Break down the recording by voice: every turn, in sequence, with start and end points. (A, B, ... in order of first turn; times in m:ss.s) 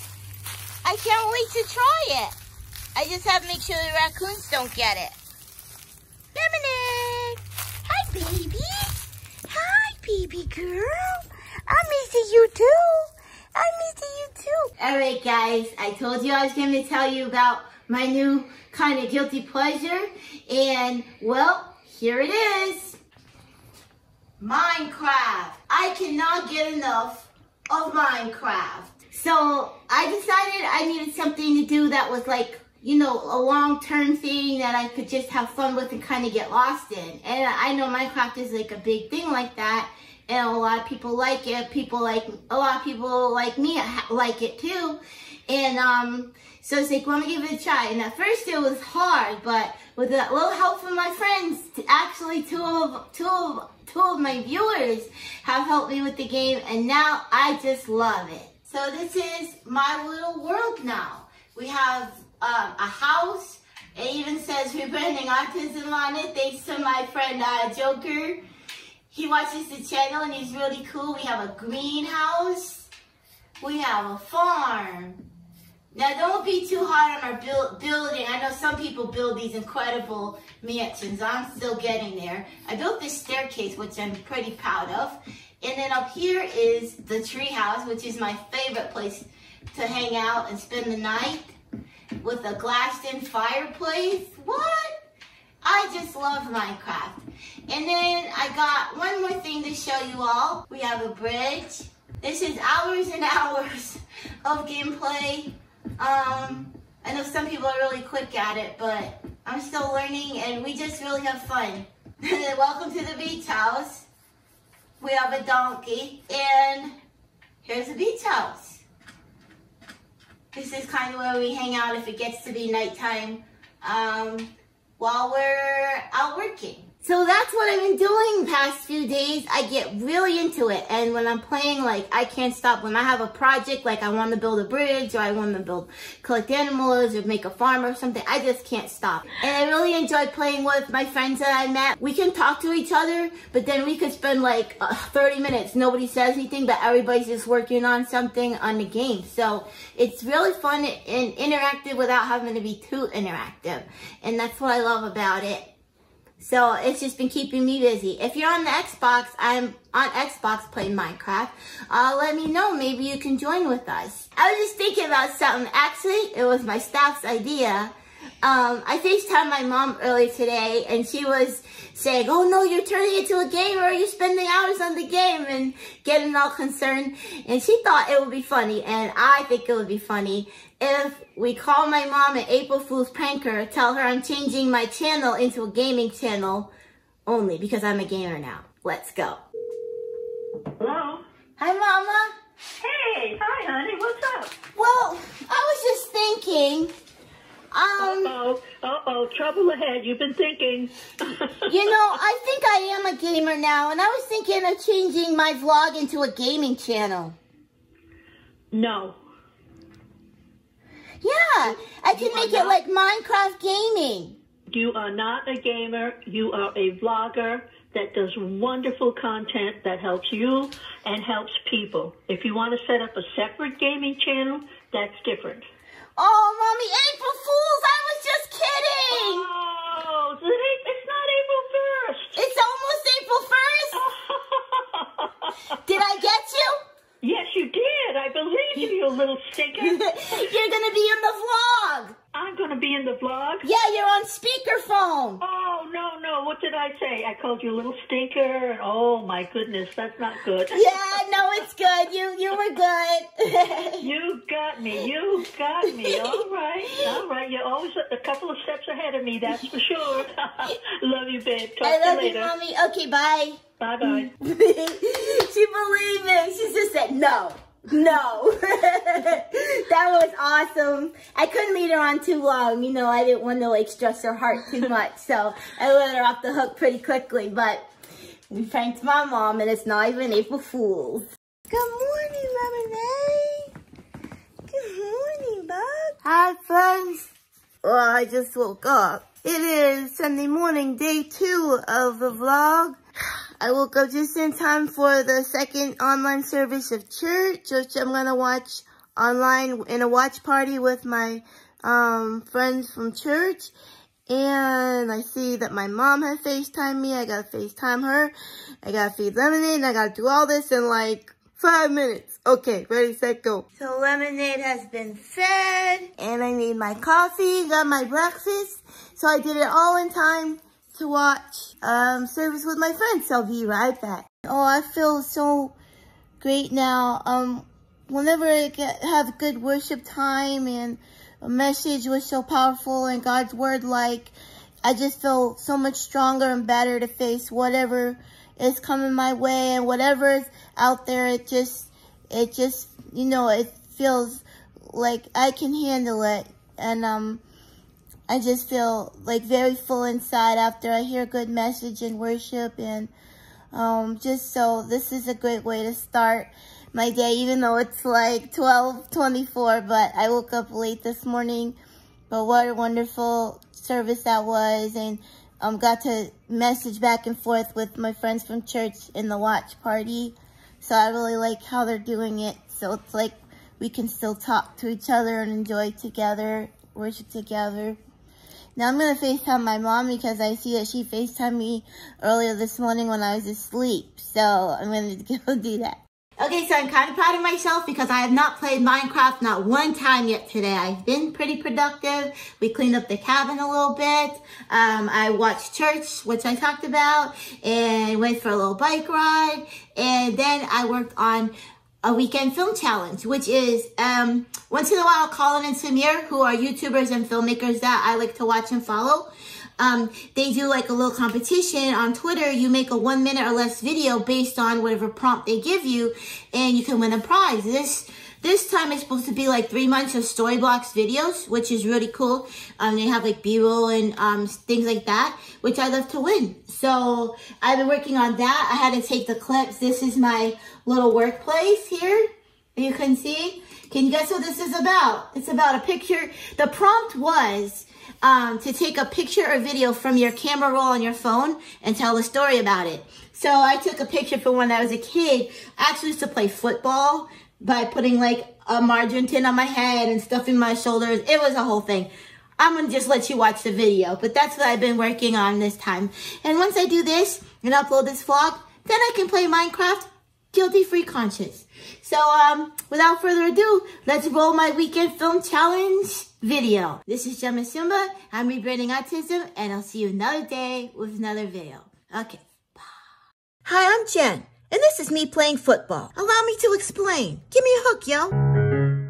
0:00.8-0:02.4 A
0:03.0-0:05.2 A
0:06.4-0:09.0 A
0:09.5-0:23.0 A
0:24.4-1:08.4 A
1:09.1-1:12.9 A
1:13.6-1:15.2 A
1:15.9-1:31.6 A
1:32.2-1:35.0 A
1:35.6-1:54.1 A
1:55.0-1:57.0 A
1:57.6-1:58.8 A
2:00.5-2:35.7 A
2:36.4-3:06.7 A
3:07.3-3:09.4 A
3:10.8-3:11.2 B
3:11.6-3:12.3 A
3:12.8-3:14.5 B
3:14.8-3:16.9 A
3:17.7-3:18.4 A
3:18.0-3:22.2 B
3:21.7-3:27.4 A
3:28.7-3:29.2 B
3:31.2-3:34.4 A
3:31.7-3:32.8 B
3:34.7-3:45.7 B
3:46.2-3:49.5 A
3:49.1-3:52.4 B
3:52.4-3:54.0 A
3:53.9-3:55.6 B
3:55.8-3:56.8 A
3:57.2-4:00.5 B
3:59.8-4:02.2 A
4:02.3-4:03.7 B
4:03.6-4:05.4 A
4:05.4-4:11.2 B
4:10.7-4:14.1 A
4:14.0-4:22.5 B
4:16.9-4:17.2 A
4:21.8-4:37.9 A
4:23.8-4:24.3 B
4:38.5-4:43.7 A
4:44.7-4:47.3 A
4:47.8-4:53.0 A
4:53.6-5:03.7 A
5:04.3-5:08.3 A
5:08.8-5:25.8 A
5:26.4-5:34.3 A
5:34.8-5:47.4 A
5:48.3-5:53.1 A
5:53.7-6:01.8 A
6:02.3-6:18.0 A
6:18.8-7:52.9 A
7:53.6-7:58.3 A